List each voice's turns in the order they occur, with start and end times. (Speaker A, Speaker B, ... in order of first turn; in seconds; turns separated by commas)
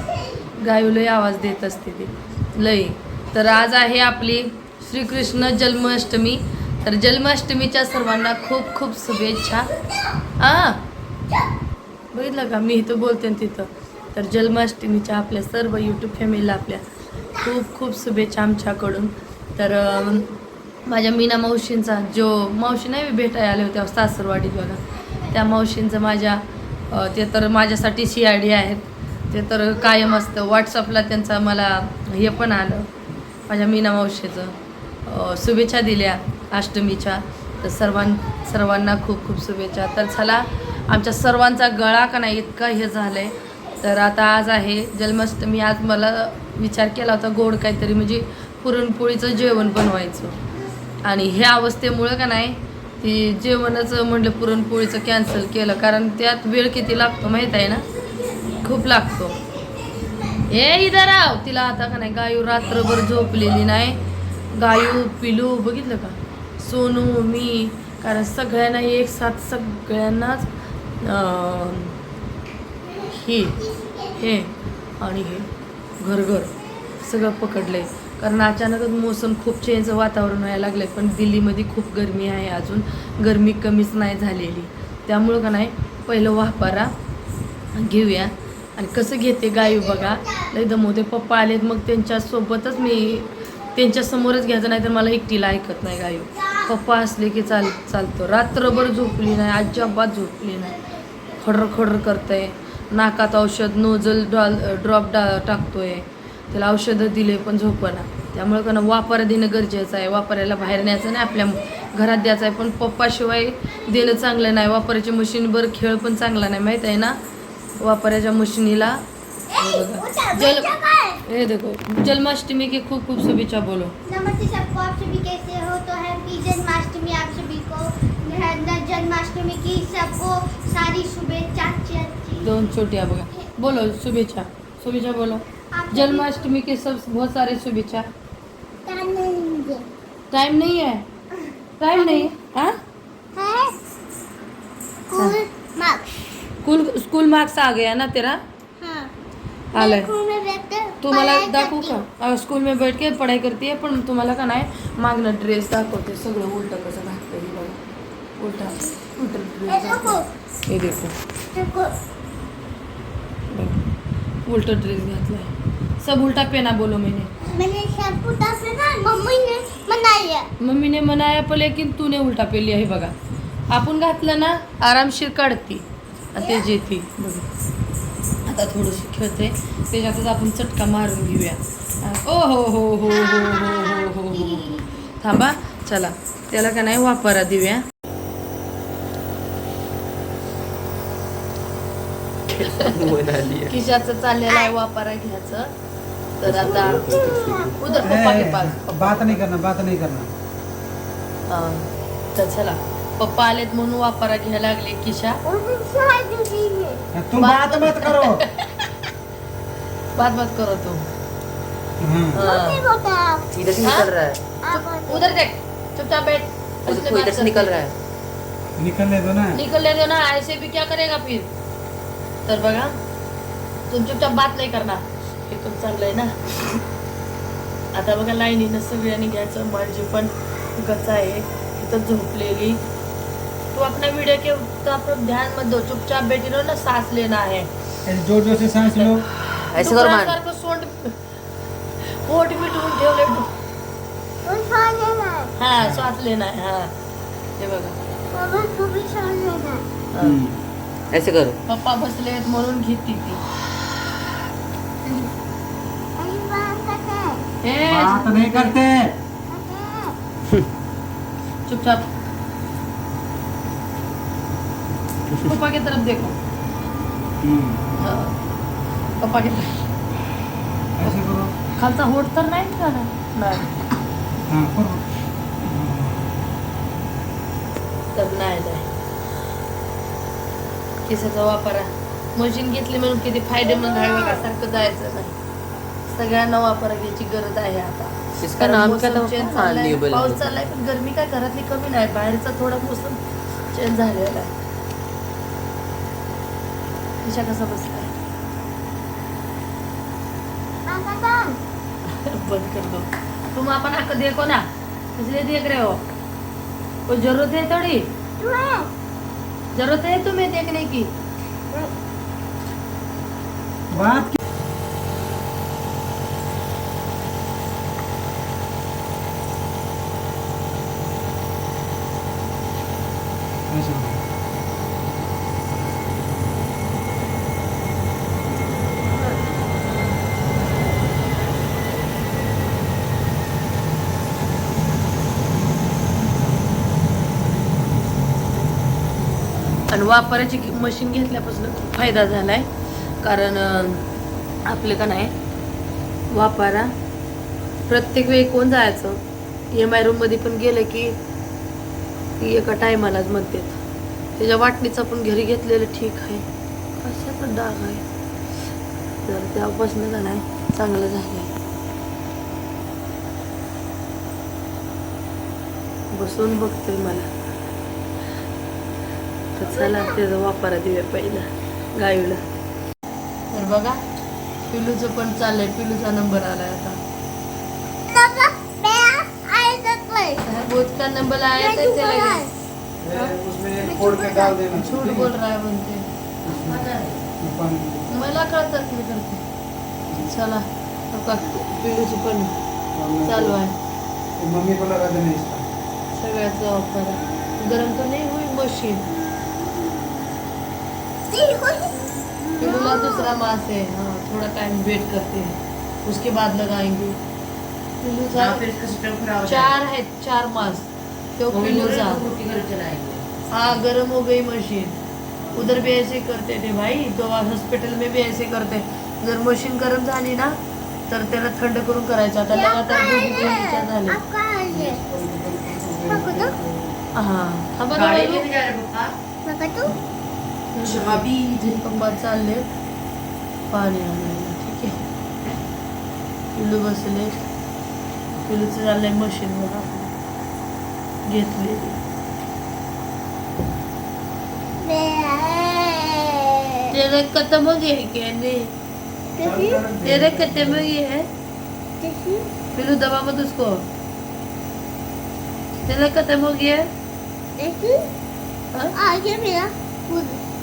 Speaker A: 0.6-9.7, Speaker A: 10.4-10.8, Speaker A: 12.1-16.9, Speaker A: 17.4-20.3, Speaker A: 20.9-32.9, Speaker A: 33.5-50.4, Speaker A: 51.0-57.8, Speaker A: 58.6-59.4, Speaker A: 60.5-64.0, Speaker A: 64.5-70.5, Speaker A: 71.0-72.0, Speaker B: 73.0-74.1, Speaker A: 73.0-86.9, Speaker A: 87.7-100.8, Speaker B: 89.8-90.5, Speaker B: 96.4-96.7, Speaker B: 98.9-99.9, Speaker A: 101.4-117.2, Speaker A: 117.8-119.0, Speaker B: 119.5-121.2, Speaker A: 119.6-120.7, Speaker A: 121.2-124.0, Speaker B: 124.1-132.5, Speaker A: 132.4-138.1, Speaker B: 135.7-136.5, Speaker B: 138.9-139.8, Speaker A: 140.3-141.1, Speaker B: 141.4-142.3, Speaker A: 141.8-142.8, Speaker B: 143.3-143.8, Speaker B: 145.1-146.2, Speaker A: 146.6-148.4, Speaker B: 148.8-149.1, Speaker A: 149.7-150.1, Speaker B: 149.8-152.0, Speaker A: 151.0-157.8, Speaker A: 158.4-161.2, Speaker B: 159.7-160.3, Speaker B: 161.5-161.9, Speaker A: 163.5-163.8, Speaker A: 164.5-167.3, Speaker B: 167.4-170.5, Speaker A: 170.6-173.1, Speaker A: 173.7-177.5, Speaker A: 178.5-187.8, Speaker B: 183.1-184.9, Speaker C: 192.5-193.7, Speaker A: 192.6-192.9, Speaker A: 193.7-195.7, Speaker A: 196.4-197.2, Speaker C: 196.4-197.8, Speaker B: 196.7-198.2, Speaker A: 197.8-199.4, Speaker D: 198.0-200.3, Speaker A: 201.5-205.4, Speaker B: 205.4-207.1, Speaker D: 207.1-208.4, Speaker A: 207.4-208.9, Speaker A: 210.2-211.1, Speaker D: 212.0-212.5, Speaker A: 212.3-212.8, Speaker B: 212.4-213.5, Speaker C: 213.5-214.4, Speaker A: 213.8-214.1, Speaker B: 214.6-215.4, Speaker A: 214.7-217.8, Speaker C: 216.9-217.9, Speaker D: 218.8-219.6, Speaker A: 219.5-221.5, Speaker A: 222.5-223.0, Speaker A: 223.9-226.6, Speaker A: 227.9-232.8, Speaker A: 233.7-237.7, Speaker D: 238.1-239.2, Speaker A: 238.8-239.1, Speaker C: 239.4-240.4, Speaker A: 239.8-241.2, Speaker A: 242.0-243.5, Speaker B: 244.4-245.5, Speaker A: 245.6-246.9, Speaker D: 245.8-246.1, Speaker A: 247.6-247.9, Speaker B: 248.3-249.8, Speaker A: 250.1-250.4, Speaker C: 251.1-251.6, Speaker A: 251.7-253.4, Speaker B: 256.2-257.4, Speaker A: 257.6-258.8, Speaker D: 257.9-259.1, Speaker B: 259.5-260.2, Speaker A: 261.7-262.1, Speaker A: 265.4-266.4, Speaker D: 267.4-267.8, Speaker A: 268.0-268.4, Speaker A: 269.2-269.7, Speaker D: 271.0-271.5, Speaker A: 271.8-273.7, Speaker D: 274.5-275.1, Speaker D: 275.6-276.4, Speaker A: 278.1-278.9, Speaker A: 281.1-285.4, Speaker A: 286.1-294.5, Speaker C: 288.4-290.6, Speaker A: 297.2-298.1, Speaker B: 300.9-301.6, Speaker A: 302.1-304.6, Speaker A: 305.2-306.0, Speaker A: 307.1-308.1, Speaker B: 308.4-308.9, Speaker A: 309.7-311.1, Speaker D: 313.9-314.4, Speaker D: 323.7-324.2, Speaker A: 339.9-342.7, Speaker A: 343.2-344.1, Speaker A: 344.7-345.3, Speaker A: 346.3-346.9, Speaker A: 347.9-349.2, Speaker A: 349.7-351.2, Speaker A: 352.4-353.8, Speaker A: 354.4-356.5, Speaker A: 357.0-358.0, Speaker A: 359.2-361.5, Speaker A: 366.1-367.3, Speaker A: 369.6-372.4, Speaker B: 369.8-370.1, Speaker A: 373.5-374.0, Speaker A: 374.7-377.0, Speaker B: 378.1-380.4, Speaker A: 380.4-382.4, Speaker B: 381.6-382.5, Speaker D: 383.0-385.3, Speaker B: 383.8-384.6, Speaker A: 384.7-386.1, Speaker D: 386.5-386.9, Speaker C: 386.5-387.3, Speaker D: 387.4-388.1, Speaker A: 388.1-389.4, Speaker A: 390.1-392.5, Speaker D: 392.9-393.6, Speaker A: 393.2-393.8, Speaker D: 394.4-395.7, Speaker A: 396.1-399.1, Speaker B: 401.3-402.0, Speaker A: 402.6-407.2, Speaker B: 402.6-403.2, Speaker A: 408.0-408.7, Speaker C: 408.3-409.8, Speaker A: 409.4-412.2, Speaker C: 411.5-413.3, Speaker A: 413.5-415.0, Speaker A: 415.5-424.2, Speaker C: 415.6-415.9, Speaker B: 422.5-425.0, Speaker D: 424.7-427.0, Speaker B: 426.0-426.6, Speaker A: 427.1-428.5, Speaker C: 427.9-429.1, Speaker B: 429.4-430.0, Speaker A: 430.7-432.7, Speaker C: 430.8-431.8, Speaker A: 433.7-435.0, Speaker A: 436.6-437.4, Speaker A: 438.4-440.1, Speaker A: 441.2-442.0, Speaker B: 444.8-446.9, Speaker A: 446.9-448.7, Speaker D: 449.4-450.9, Speaker B: 449.4-449.8, Speaker A: 450.0-451.3, Speaker B: 452.0-452.5, Speaker A: 452.7-453.9, Speaker A: 455.9-456.9, Speaker B: 457.6-458.1, Speaker B: 458.9-460.4